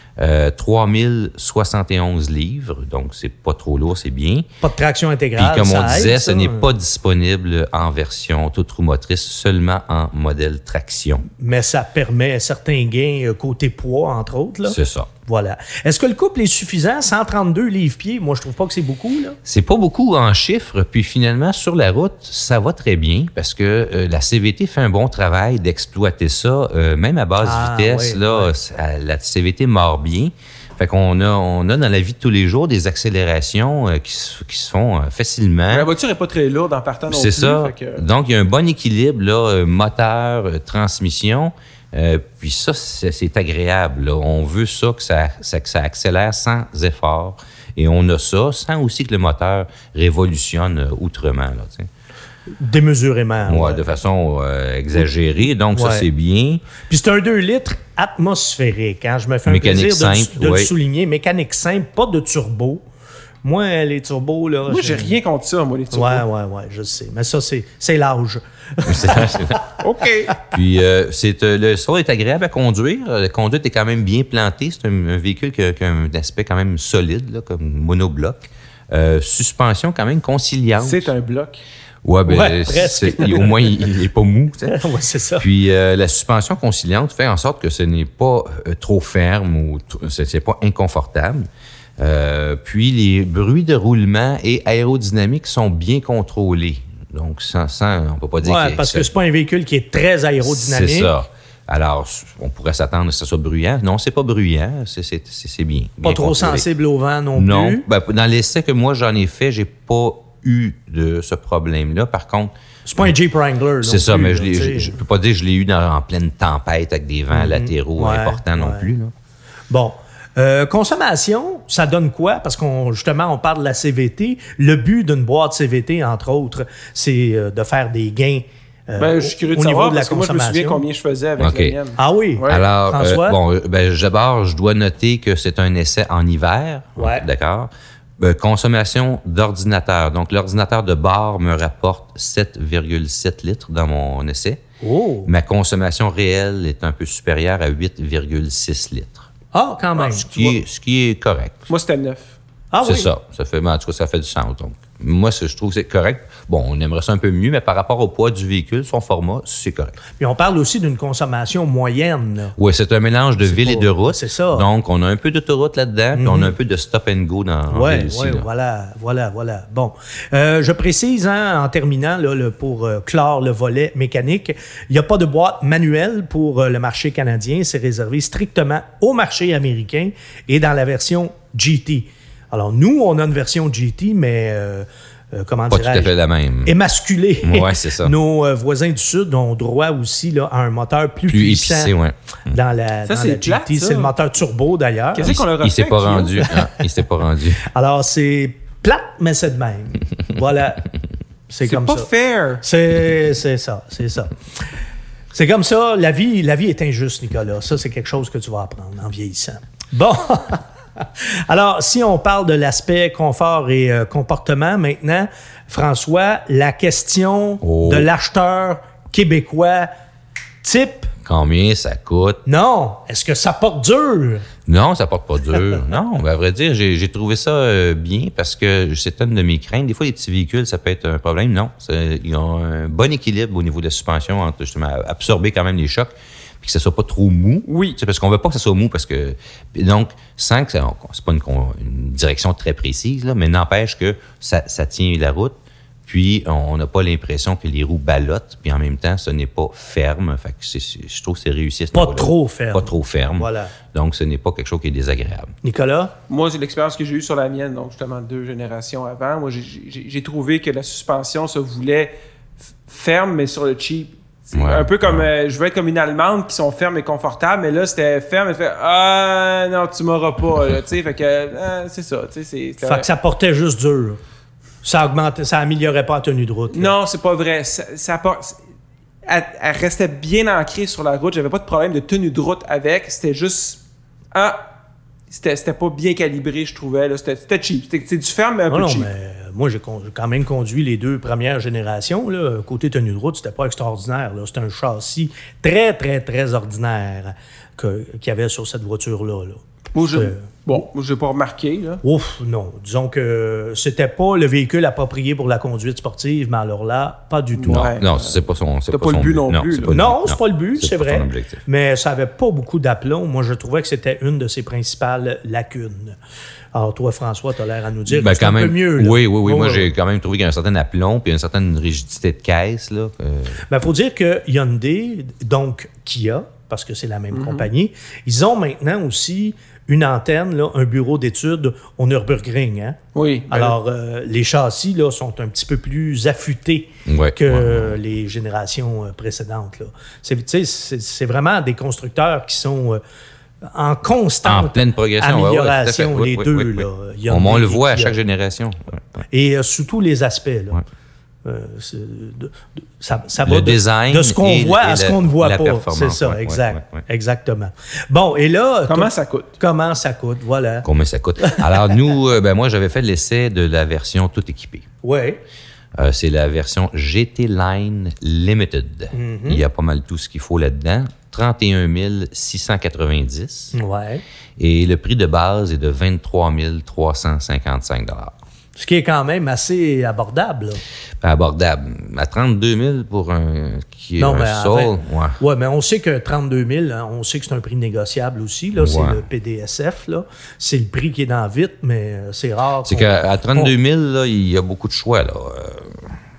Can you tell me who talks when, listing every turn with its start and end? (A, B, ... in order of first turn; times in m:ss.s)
0:00.2-0:04.5 A
0:04.6-0:06.7 B
0:05.4-0:11.3 A
0:11.4-0:19.4 B
0:14.7-0:15.1 A
0:19.4-0:35.9 A
0:27.4-0:28.5 B
0:35.7-0:38.0 C
0:37.1-0:51.9 A
0:52.6-0:53.9 B
0:53.5-0:56.6 A
0:55.7-0:56.1 B
0:56.9-1:02.8 B
0:59.5-1:00.7 A
1:03.4-1:05.2 B
1:04.7-1:06.2 C
1:05.9-1:09.6 B
1:08.9-1:09.6 A
1:09.8-1:10.4 C
1:10.5-1:21.1 A
1:20.8-1:21.6 C
1:22.0-1:24.8 A
1:22.3-1:23.7 B
1:24.7-1:25.5 B
1:25.4-1:31.5 A
1:32.0-1:39.1 A
1:38.4-1:41.1 B
1:40.4-1:46.7 A
1:46.0-1:47.8 B
1:47.4-1:52.5 A
1:52.9-1:55.0 B
1:53.8-1:59.1 A
1:57.3-1:58.9 B
1:59.7-2:10.8 B
2:09.0-2:12.6 C
2:11.4-2:11.8 A
2:12.0-2:13.4 B
2:12.5-2:24.6 A
2:17.0-2:17.3 B
2:24.8-2:25.3 B
2:25.3-2:29.3 A
2:29.5-2:30.6 B
2:30.0-2:31.7 A
2:31.7-2:32.3 C
2:32.7-2:33.1 B
2:32.8-2:40.0 A
2:40.2-2:42.6 B
2:42.6-2:48.5 A
2:43.4-2:44.7 B
2:46.1-2:46.5 B
2:47.7-3:12.0 B
3:05.7-3:06.7 A
3:07.4-3:08.2 A
3:11.3-3:12.6 A
3:12.5-3:15.4 B
3:13.1-3:14.1 C
3:15.1-3:16.5 C
3:15.2-3:17.6 A
3:17.6-3:20.9 B
3:21.5-3:22.1 B
3:21.7-3:22.6 C
3:22.6-3:24.3 B
3:25.3-3:39.9 B
3:37.6-3:38.1 A
3:40.6-3:41.1 B
3:41.2-3:42.4 A
3:42.4-3:44.5 B
3:44.7-4:15.5 A
3:57.7-3:58.0 C
4:11.9-4:13.7 B
4:15.6-4:16.1 B
4:16.3-4:22.1 C
4:22.9-4:33.1 C
4:24.5-4:25.3 A
4:32.8-4:34.2 B
4:34.8-4:37.0 B
4:36.7-4:38.6 C
4:39.2-4:44.6 C
4:45.3-4:49.1 C
4:48.7-5:00.8 B
4:59.9-5:02.0 C
5:02.0-5:07.9 B
5:07.6-5:08.4 C
5:07.7-5:11.6 A
5:08.9-5:10.0 C
5:09.9-5:16.2 B
5:16.7-5:19.9 B
5:18.1-5:23.6 A
5:23.7-5:43.0 B
5:27.3-5:27.7 C
5:33.2-5:33.8 C
5:37.1-5:38.0 A
5:43.7-5:48.2 B
5:44.4-5:49.0 A
5:49.3-5:50.8 B
5:51.4-6:00.9 B
5:53.4-5:57.0 A
5:58.9-5:59.6 C
6:00.8-6:04.9 A
6:01.4-6:01.9 B
6:05.0-6:05.4 B
6:06.0-6:13.8 A
6:09.1-6:09.6 B
6:13.7-6:14.2 B
6:14.6-6:18.3 A
6:18.8-6:20.8 B
6:21.2-6:25.4 A
6:24.2-6:33.7 B
6:28.8-6:29.2 A
6:32.8-6:36.1 A